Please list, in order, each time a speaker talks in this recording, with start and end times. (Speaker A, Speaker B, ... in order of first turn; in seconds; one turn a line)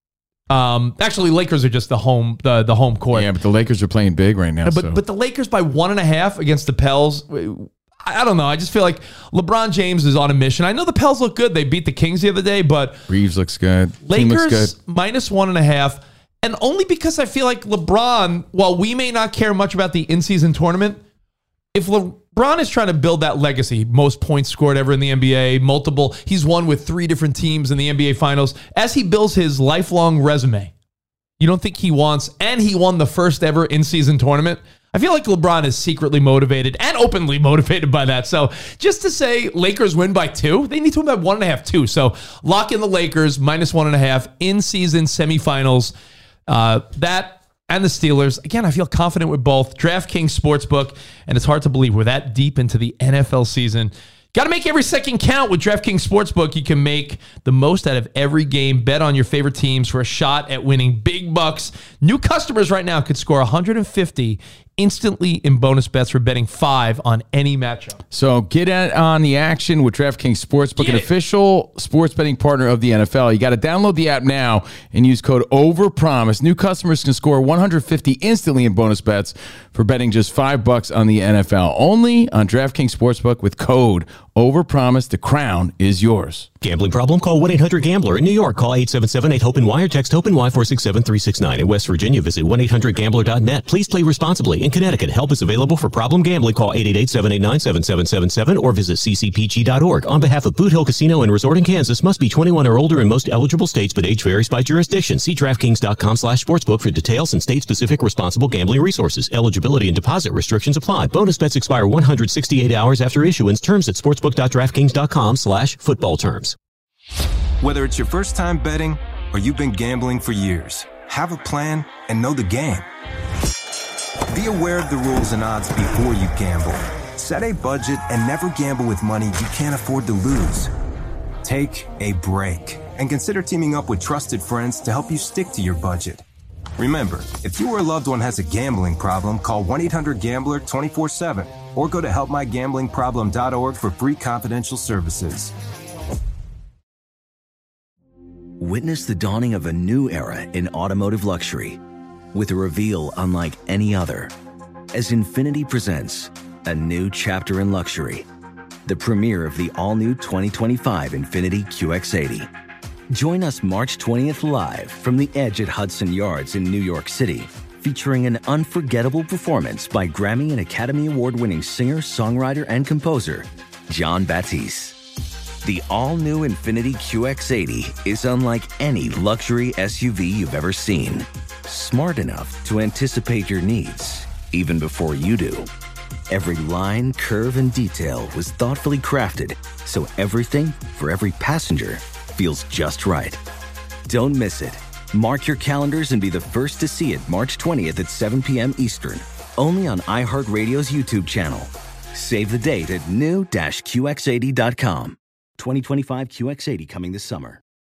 Speaker A: 0.5-3.3
Speaker B: 3.1-5.0
Speaker A: 4.7-13.0
Speaker B: 13.1-14.7
Speaker A: 14.0-21.0
Speaker A: 21.7-30.7
Speaker A: 31.4-45.9
Speaker A: 46.5-68.0
Speaker B: 68.1-86.5
Speaker A: 70.8-71.1
Speaker C: 86.6-116.6
Speaker D: 117.6-122.9
Speaker D: 124.3-130.7
Speaker D: 131.4-136.2
Speaker D: 136.8-145.5
Speaker E: 148.6-151.8
Speaker E: 152.3-154.3
Speaker E: 154.9-158.3
Speaker E: 158.9-162.5
Speaker E: 163.1-175.0
Speaker E: 175.6-185.7
Speaker E: 186.3-193.4
Speaker E: 194.1-207.6